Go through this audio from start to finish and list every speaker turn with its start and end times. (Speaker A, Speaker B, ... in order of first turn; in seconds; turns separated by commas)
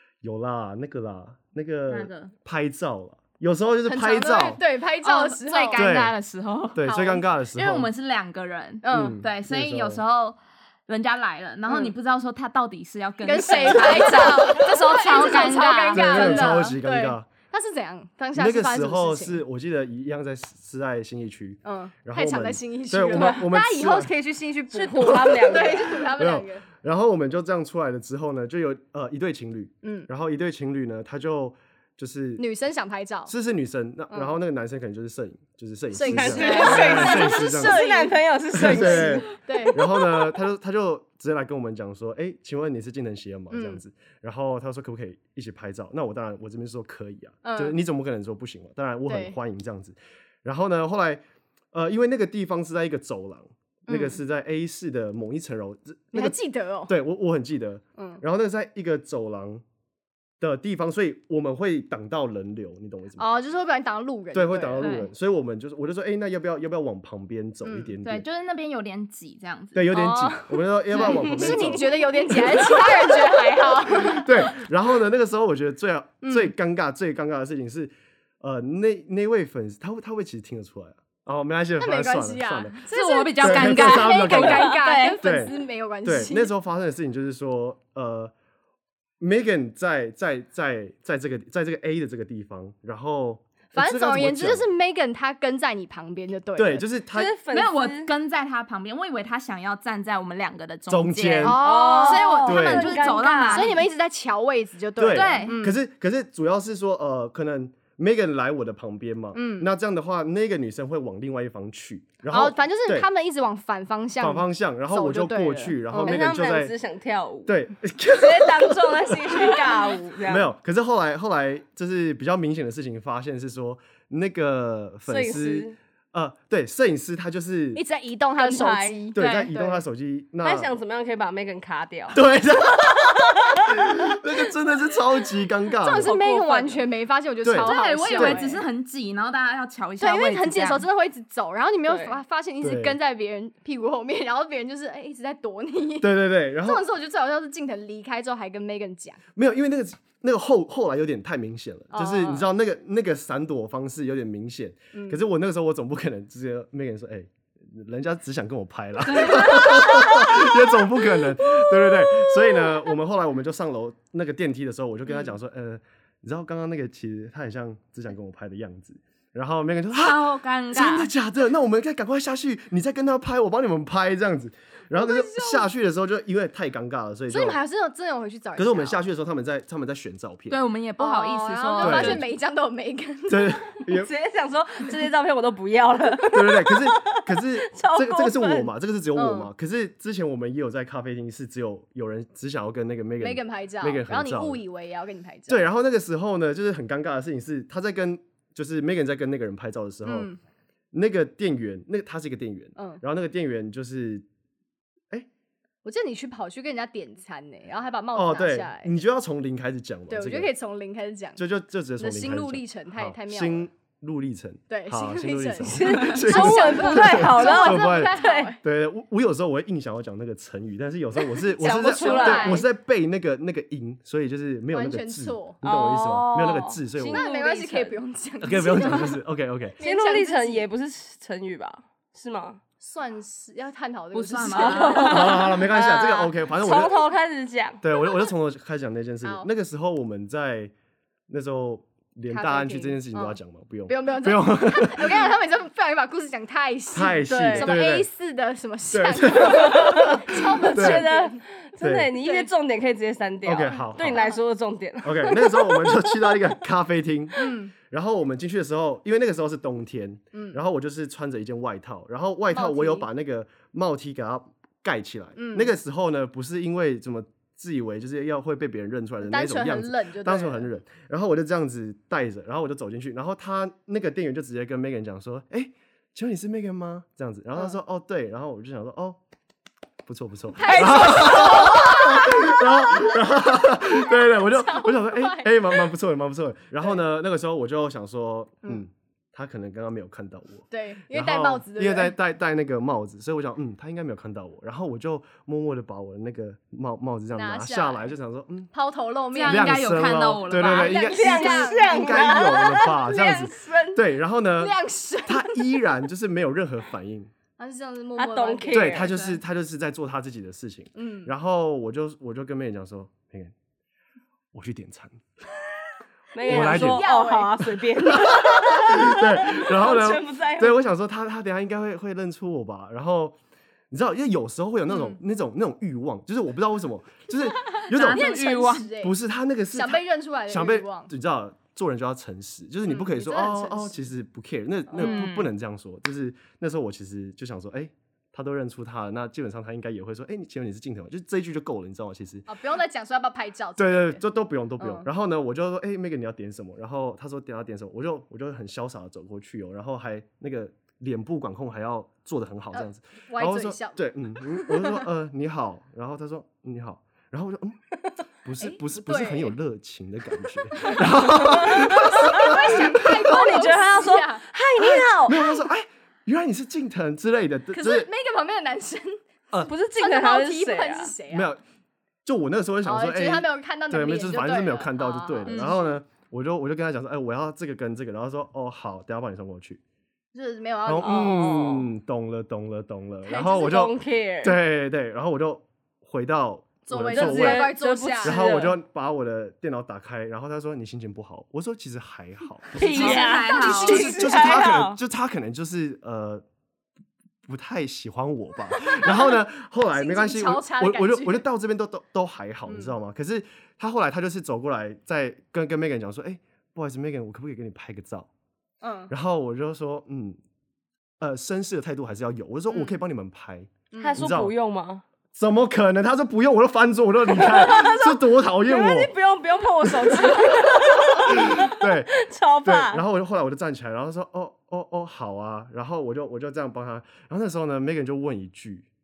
Speaker A: 0.2-4.6, Speaker B: 1.9-2.3, Speaker C: 3.9-5.9, Speaker B: 5.0-7.0, Speaker A: 5.8-6.2, Speaker A: 6.7-7.9, Speaker C: 6.9-7.2, Speaker B: 7.5-16.8, Speaker C: 8.8-9.2, Speaker A: 8.9-10.0, Speaker C: 11.7-11.9, Speaker C: 13.2-19.4, Speaker A: 15.7-17.3, Speaker A: 18.3-24.1, Speaker C: 21.6-26.6, Speaker D: 24.7-26.1, Speaker A: 26.1-32.4, Speaker C: 29.8-30.1, Speaker C: 32.4-33.3, Speaker A: 33.3-37.8, Speaker C: 35.9-39.8, Speaker D: 36.0-39.3, Speaker B: 36.4-37.1, Speaker A: 38.5-56.4, Speaker C: 43.5-43.8, Speaker C: 47.4-47.8, Speaker C: 49.1-49.4, Speaker C: 53.9-54.2, Speaker C: 56.1-56.9, Speaker A: 56.9-59.6, Speaker C: 58.0-58.2, Speaker A: 60.4-63.3, Speaker C: 63.2-64.9, Speaker A: 64.3-68.2, Speaker B: 64.8-65.1, Speaker C: 67.6-67.9, Speaker B: 68.0-70.0, Speaker A: 69.7-72.9, Speaker C: 69.9-74.5, Speaker D: 71.0-71.7, Speaker A: 74.0-82.8, Speaker C: 76.2-76.5, Speaker C: 81.8-86.5, Speaker B: 82.9-85.4, Speaker A: 83.4-88.3, Speaker A: 89.2-94.7, Speaker C: 93.8-96.9, Speaker A: 96.6-97.3, Speaker D: 97.1-98.1, Speaker B: 97.5-103.8, Speaker A: 100.9-101.7, Speaker C: 101.4-105.8, Speaker D: 101.6-103.8, Speaker A: 102.5-102.9, Speaker A: 105.0-113.1, Speaker B: 105.1-105.6, Speaker C: 109.3-109.7, Speaker C: 112.3-116.2, Speaker A: 114.2-116.7, Speaker D: 115.9-117.5, Speaker A: 117.5-119.6, Speaker D: 118.1-120.5, Speaker A: 120.3-127.8, Speaker D: 125.1-125.8, Speaker C: 127.8-129.8, Speaker D: 128.4-129.0, Speaker A: 129.2-130.7, Speaker D: 130.4-132.2, Speaker A: 132.1-136.1, Speaker D: 132.9-133.6, Speaker C: 135.8-138.6, Speaker D: 136.0-136.8, Speaker A: 137.4-138.4, Speaker B: 137.6-140.9, Speaker C: 140.0-149.2, Speaker D: 141.9-142.2, Speaker A: 142.6-143.0, Speaker A: 146.0-146.8, Speaker A: 149.4-177.6, Speaker C: 151.9-152.5, Speaker C: 154.9-155.2, Speaker B: 159.2-160.2, Speaker C: 159.2-160.5, Speaker C: 161.6-162.8, Speaker B: 169.9-171.1, Speaker C: 174.9-175.7, Speaker C: 177.3-179.0, Speaker A: 178.6-180.6, Speaker B: 180.5-182.3, Speaker C: 181.0-183.8, Speaker A: 181.8-182.3, Speaker A: 183.3-184.1, Speaker D: 183.9-188.7, Speaker A: 186.3-194.6, Speaker C: 189.2-189.5, Speaker C: 193.2-195.7, Speaker A: 195.5-200.3, Speaker C: 200.1-200.4, Speaker A: 200.9-204.2, Speaker C: 202.8-203.0, Speaker C: 205.8-208.9, Speaker A: 208.2-210.5, Speaker C: 210.1-211.4, Speaker A: 211.4-227.2, Speaker C: 212.0-213.7, Speaker C: 214.7-218.6, Speaker D: 215.6-218.5, Speaker D: 221.6-222.6, Speaker C: 221.6-222.7, Speaker C: 224.7-225.6, Speaker D: 225.6-228.0, Speaker C: 227.0-229.2, Speaker A: 228.4-229.8, Speaker D: 228.8-229.1, Speaker C: 229.8-230.7, Speaker D: 229.8-232.6, Speaker C: 232.8-235.4, Speaker B: 234.1-235.2, Speaker D: 234.5-237.8, Speaker A: 235.0-237.0, Speaker A: 237.8-240.7, Speaker A: 241.3-245.2, Speaker C: 242.3-251.4, Speaker A: 246.9-248.1, Speaker D: 247.3-247.8, Speaker A: 248.9-250.2, Speaker D: 249.5-256.5, Speaker A: 250.8-251.1, Speaker A: 251.8-252.2, Speaker C: 252.2-252.5, Speaker A: 253.4-254.2, Speaker A: 255.0-279.2, Speaker C: 257.4-257.7, Speaker C: 260.3-260.6, Speaker C: 262.5-263.1, Speaker C: 265.4-265.8, Speaker C: 269.2-270.7, Speaker A: 280.1-298.7, Speaker C: 280.6-285.9, Speaker B: 280.8-281.7, Speaker C: 290.7-292.1, Speaker C: 297.4-298.1, Speaker C: 298.7-299.9, Speaker B: 299.3-301.0, Speaker A: 299.4-304.8, Speaker C: 300.6-302.8, Speaker D: 300.9-304.0, Speaker C: 304.6-305.8, Speaker A: 305.3-307.3, Speaker C: 307.6-309.1, Speaker D: 308.2-309.1, Speaker A: 308.7-313.5, Speaker B: 309.1-309.4, Speaker C: 310.9-311.3, Speaker A: 314.5-315.2, Speaker D: 316.3-320.8, Speaker C: 316.4-317.6, Speaker A: 316.4-317.1, Speaker A: 318.1-323.4, Speaker A: 323.9-328.4, Speaker C: 324.9-325.2, Speaker B: 327.9-328.9, Speaker C: 328.0-329.1, Speaker A: 329.0-342.5, Speaker C: 329.7-331.1, Speaker C: 332.9-334.1, Speaker C: 334.9-335.3, Speaker B: 335.0-335.5, Speaker C: 342.5-344.2, Speaker A: 343.8-357.8, Speaker C: 344.8-345.1, Speaker C: 352.7-355.1, Speaker A: 358.4-363.2, Speaker C: 358.6-359.5, Speaker C: 360.7-361.2, Speaker D: 361.4-362.3, Speaker C: 361.8-364.4, Speaker D: 363.1-365.4, Speaker A: 364.8-368.1, Speaker C: 367.7-371.5, Speaker D: 369.6-371.1, Speaker A: 371.3-371.6, Speaker A: 372.2-379.8, Speaker C: 372.9-375.7, Speaker B: 375.5-375.8, Speaker C: 380.3-381.6, Speaker A: 380.9-393.3, Speaker D: 381.0-381.9, Speaker C: 383.3-383.8, Speaker D: 383.4-384.6, Speaker C: 386.9-388.4, Speaker D: 387.1-388.8, Speaker D: 392.8-395.0, Speaker B: 392.8-394.1, Speaker C: 393.0-394.3, Speaker A: 393.9-396.4, Speaker A: 397.5-408.3, Speaker C: 398.8-399.3, Speaker C: 399.9-401.4, Speaker C: 402.7-402.9, Speaker C: 408.8-409.1, Speaker A: 409.1-410.4, Speaker A: 411.2-414.5, Speaker C: 412.7-413.0, Speaker C: 413.9-414.2, Speaker D: 414.0-415.0, Speaker A: 415.3-419.1, Speaker D: 417.3-423.0, Speaker A: 419.8-420.5, Speaker A: 421.3-428.9